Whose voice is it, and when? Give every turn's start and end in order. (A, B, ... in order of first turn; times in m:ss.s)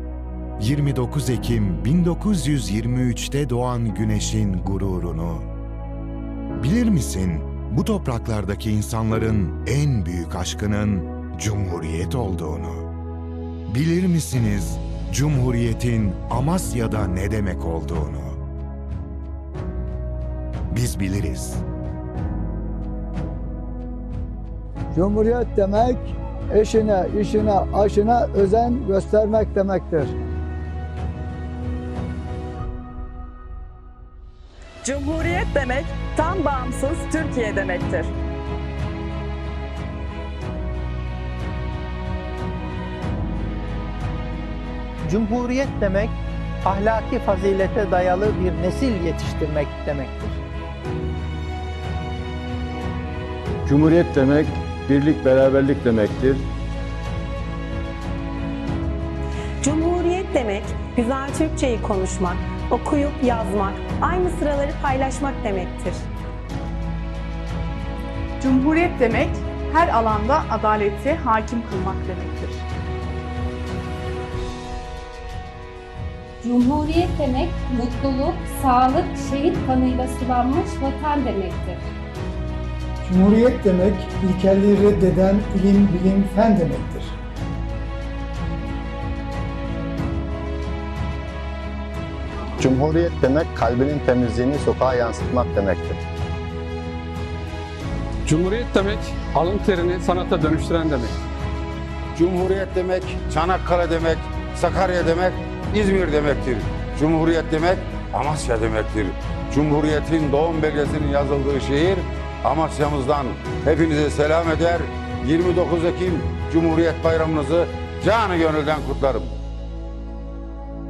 0:00.6-0:05.5 A
0:06.6-0:12.9 A
0:13.7-0:18.4 A
0:20.7-0:21.6 A
0:24.9-0:30.1 B
0:34.8-0:38.1 C
0:45.0-0:50.4 D
0:53.7-0:56.4 E
0:59.6-1:06.0 F
1:08.4-1:12.6 G
1:16.4-1:21.9 H
1:23.0-1:27.2 I
1:32.6-1:36.0 J
1:38.3-1:41.1 K
1:42.1-1:59.3 L